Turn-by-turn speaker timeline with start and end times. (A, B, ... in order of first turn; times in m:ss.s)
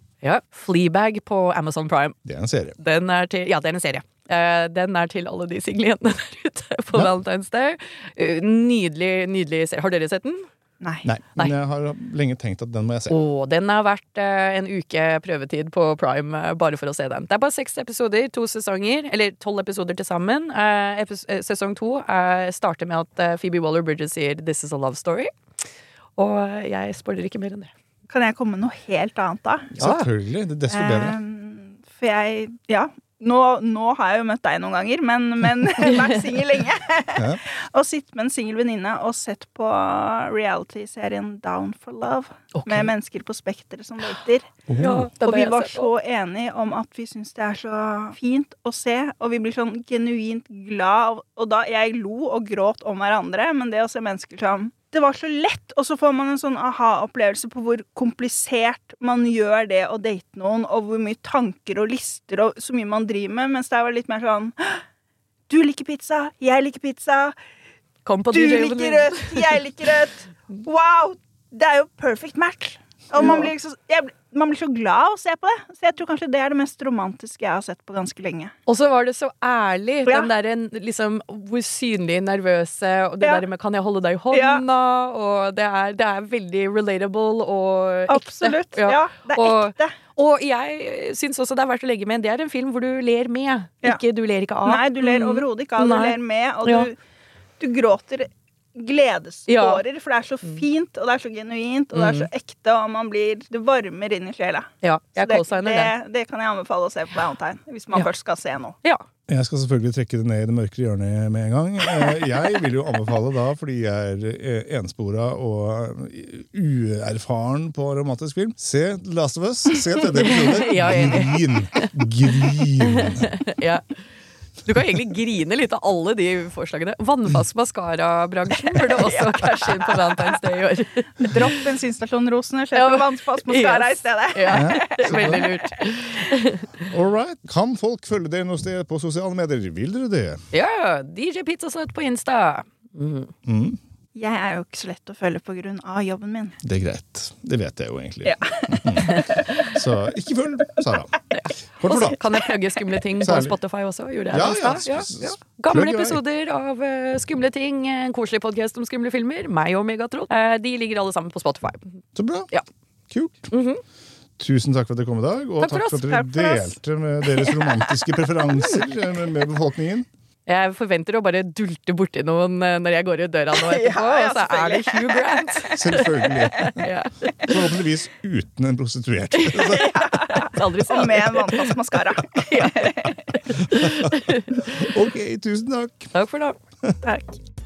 0:00.2-0:02.2 A
0:02.2-0:02.8 B
0:02.8-0:10.5 A
0:10.8-0:11.1 C
0:11.0-0:13.2 B
0:13.1-0:25.3 A
0:26.2-0:27.7 A
0:28.1-0:29.7 C
0:29.8-0:31.2 B
0:29.8-0:30.1 A
0:30.7-0:44.5 C
0:42.5-0:42.9 A
0:44.7-0:45.1 B
0:44.8-0:45.9 A
0:45.2-1:04.8 C
1:05.5-1:07.4 C
1:08.1-1:09.6 A
1:08.3-1:18.5 C
1:13.2-1:13.5 A
1:18.7-1:36.9 A
1:24.3-1:24.6 C
1:28.1-1:29.9 C
1:34.6-1:37.0 C
1:37.6-1:48.8 C
1:39.5-1:39.8 A
1:41.9-1:42.3 A
1:44.8-1:45.9 A
1:49.3-2:03.3 B
2:00.2-2:02.0 A
2:02.6-2:03.9 A
2:04.6-2:11.6 A
2:09.0-2:10.3 C
2:11.2-2:15.5 C
2:12.8-2:16.8 A
2:14.5-2:15.5 B
2:16.9-2:20.4 B
2:20.5-2:23.3 A
2:23.4-2:23.8 B
2:24.2-2:26.6 C
2:26.6-2:31.2 B
2:28.2-2:29.4 C
2:29.0-2:29.4 A
2:31.3-2:42.0 A
2:31.8-2:32.2 B
2:33.2-2:33.6 B
2:34.3-2:36.2 B
2:42.2-2:42.5 B
2:43.1-2:43.5 B
2:43.5-2:43.8 A
2:44.4-2:50.1 B
2:45.6-2:46.2 A
2:46.1-2:46.7 C
2:50.5-2:57.5 A
2:53.5-2:56.1 C
2:55.7-2:56.9 B
2:57.4-2:59.9 B
2:59.4-3:01.7 A
2:59.7-3:03.2 C
3:02.3-3:04.7 A
3:03.5-3:06.1 B
3:06.1-3:07.4 A